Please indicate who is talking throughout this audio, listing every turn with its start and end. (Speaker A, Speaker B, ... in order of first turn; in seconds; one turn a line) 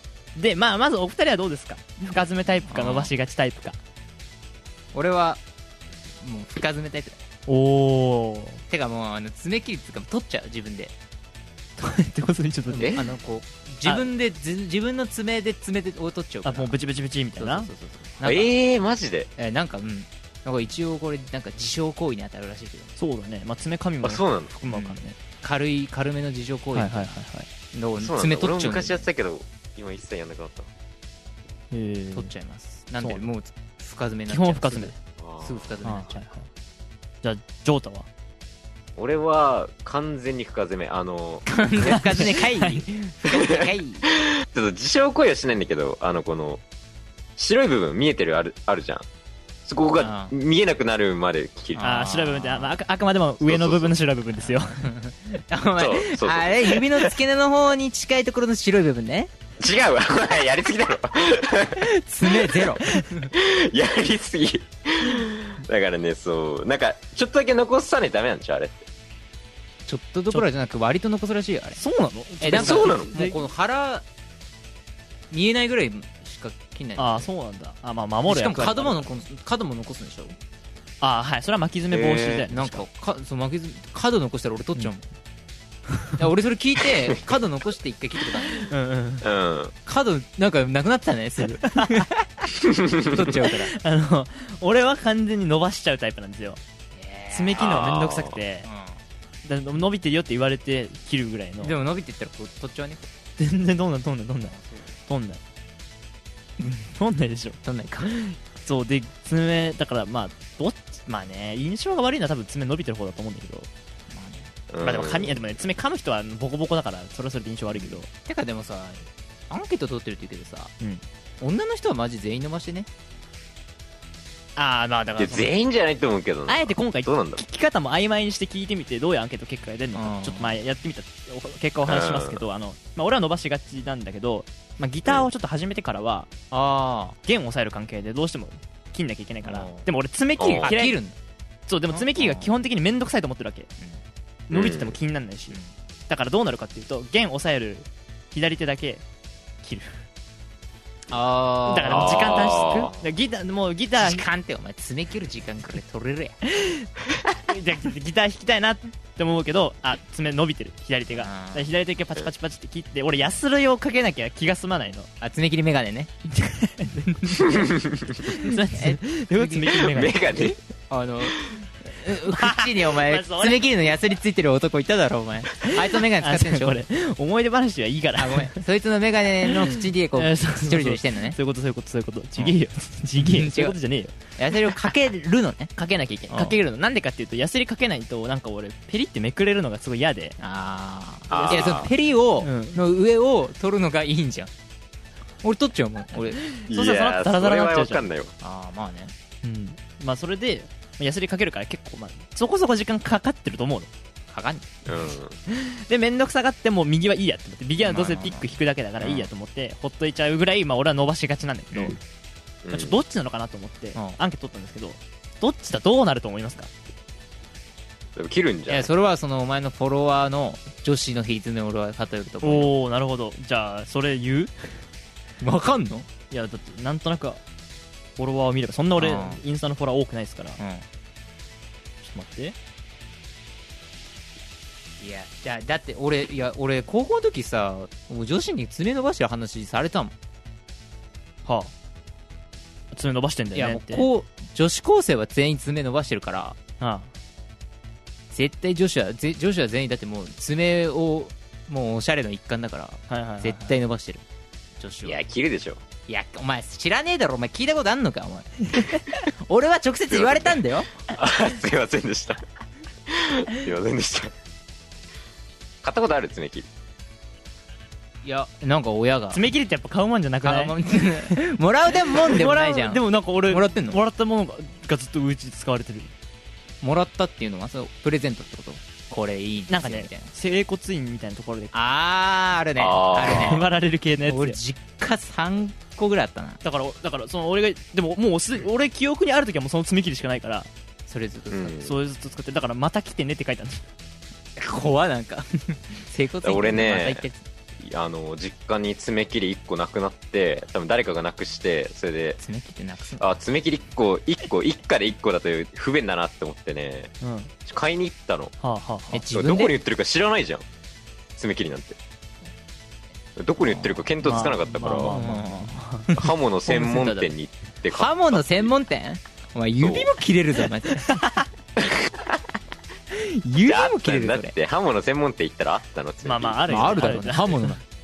Speaker A: 0.4-3.8
Speaker B: 2.7-3.1
Speaker B: 4.9-5.4
Speaker B: 6.2-7.2
Speaker A: 7.5-8.6
Speaker B: 8.7-10.9
Speaker A: 11.8-13.1
Speaker B: 12.7-16.7
Speaker A: 16.4-17.7
Speaker B: 17.4-18.5
Speaker C: 18.2-19.3
Speaker B: 19.4-22.9
Speaker A: 23.0-25.2
Speaker C: 24.0-24.5
Speaker B: 24.7-27.1
Speaker A: 26.8-27.5
Speaker B: 27.7-29.1
Speaker C: 28.0-30.7
Speaker A: 31.7-32.3
Speaker B: 32.1-36.2
Speaker A: 34.3-35.0
Speaker C: 35.2-35.8
Speaker A: 35.8-36.5
Speaker A: 37.2-38.1
Speaker C: 39.0-42.0
Speaker B: 41.5-44.1
Speaker A: 41.9-42.9
Speaker C: 43.3-46.6
Speaker C: 47.4-49.1
Speaker C: 49.6-51.8
Speaker B: 50.0-50.3
Speaker B: 51.8-52.8
Speaker A: 51.8-54.8
Speaker C: 53.4-54.0
Speaker B: 54.4-59.3
Speaker C: 55.8-57.1
Speaker C: 59.6-61.9
Speaker B: 61.8-63.3
Speaker C: 63.3-68.8
Speaker B: 69.9-71.8
Speaker A: 71.8-73.4
Speaker B: 72.4-74.0
Speaker C: 72.5-73.1
Speaker B: 75.3-77.3
Speaker A: 77.0-79.1
Speaker B: 78.3-80.4
Speaker A: 81.0-82.8
Speaker C: 81.9-82.5
Speaker B: 82.5-85.1
Speaker B: 86.2-88.7
Speaker A: 88.7-89.3
Speaker C: 89.2-89.7
Speaker B: 89.9-93.8
Speaker A: 91.6-92.1
Speaker C: 92.6-93.1
Speaker A: 93.3-96.6
Speaker B: 96.9-97.9
Speaker A: 97.3-98.7
Speaker C: 97.6-98.4
Speaker B: 98.6-99.0
Speaker A: 99.5-101.8
Speaker B: 101.6-103.1
Speaker A: 103.4-104.5
Speaker B: 104.5-104.9
Speaker A: 105.1-105.4
Speaker A: 106.8-113.7
Speaker B: 107.6-108.2
Speaker B: 114.1-114.5
Speaker C: 114.7-115.4
Speaker A: 114.8-118.1
Speaker B: 117.8-120.7
Speaker B: 121.4-122.9
Speaker A: 124.6-125.5
Speaker C: 125.2-127.4
Speaker A: 126.5-136.3
Speaker B: 129.9-130.6
Speaker C: 131.8-132.4
Speaker B: 136.5-137.2
Speaker A: 137.3-141.0
Speaker B: 139.4-139.9
Speaker C: 140.4-140.8
Speaker B: 140.6-141.2
Speaker A: 141.7-143.7
Speaker B: 141.9-142.5
Speaker A: 144.5-145.6
Speaker C: 144.5-145.0
Speaker A: 146.1-149.0
Speaker A: 149.6-150.0
Speaker B: 151.1-153.2
Speaker A: 151.7-154.2
Speaker C: 151.9-152.9
Speaker B: 154.0-156.4
Speaker A: 156.5-165.1
Speaker B: 161.2-161.7
Speaker B: 165.2-166.1
Speaker A: 166.3-167.7
Speaker C: 167.4-168.2
Speaker A: 168.2-170.5
Speaker B: 168.4-176.8
Speaker C: 169.7-170.6
Speaker A: 172.3-173.7
Speaker A: 175.6-178.6
Speaker B: 178.2-181.4
Speaker A: 179.4-184.9
Speaker B: 183.2-183.8
Speaker B: 184.4-185.7
Speaker A: 185.8-190.4
Speaker B: 186.3-186.6
Speaker B: 190.4-194.5
Speaker A: 191.3-191.9
Speaker C: 191.3-191.9
Speaker A: 192.4-192.8
Speaker B: 195.4-196.4
Speaker A: 196.4-198.1
Speaker C: 196.7-198.3
Speaker B: 198.4-199.1
Speaker A: 199.4-203.9
Speaker B: 204.3-204.9
Speaker C: 204.9-205.4
Speaker A: 205.5-212.0
Speaker B: 207.8-208.5
Speaker B: 209.0-209.3
Speaker C: 212.7-213.0
Speaker A: 212.7-216.7
Speaker C: 218.2-218.9
Speaker B: 218.7-222.7
Speaker A: 222.4-224.7
Speaker B: 225.4-226.1
Speaker A: 226.3-227.4
Speaker A: 228.2-230.6
Speaker B: 229.0-229.4
Speaker B: 230.6-230.8
Speaker A: 232.0-232.6
Speaker B: 235.0-240.1
Speaker A: 241.5-241.7
Speaker A: 242.9-244.1
Speaker B: 243.5-246.6
Speaker A: 246.8-247.1
Speaker B: 248.3-254.2
Speaker A: 253.1-253.8
Speaker B: 254.8-255.2
Speaker C: 255.0-255.8
Speaker B: 256.1-260.9
Speaker C: 260.1-262.4
Speaker C: 263.1-264.3
Speaker C: 265.8-266.7
Speaker B: 268.2-269.4
Speaker A: 269.3-270.8
Speaker B: 270.4-274.0
Speaker A: 272.1-276.1
Speaker B: 276.8-280.3
Speaker A: 279.7-281.7
Speaker B: 281.7-283.7
Speaker C: 282.8-283.6
Speaker A: 283.2-284.6
Speaker B: 284.2-286.6
Speaker A: 286.6-290.7
Speaker B: 291.1-291.8
Speaker C: 291.5-292.0
Speaker A: 291.8-293.8
Speaker B: 294.6-297.4
Speaker C: 296.4-297.2
Speaker C: 297.8-302.4
Speaker B: 302.4-303.4
Speaker C: 303.2-307.1
Speaker A: 307.2-307.5
Speaker C: 307.7-308.5
Speaker A: 308.6-309.2
Speaker B: 309.1-309.8
Speaker C: 309.3-310.7
Speaker C: 311.4-312.0
Speaker C: 313.4-315.2
Speaker B: 313.7-314.1
Speaker A: 314.2-316.1
Speaker B: 314.9-317.3
Speaker C: 316.1-318.5
Speaker B: 317.9-321.2
Speaker C: 319.8-320.1
Speaker A: 321.1-321.4
Speaker B: 323.1-324.6
Speaker C: 323.6-327.1
Speaker A: 326.2-327.8
Speaker B: 326.7-327.8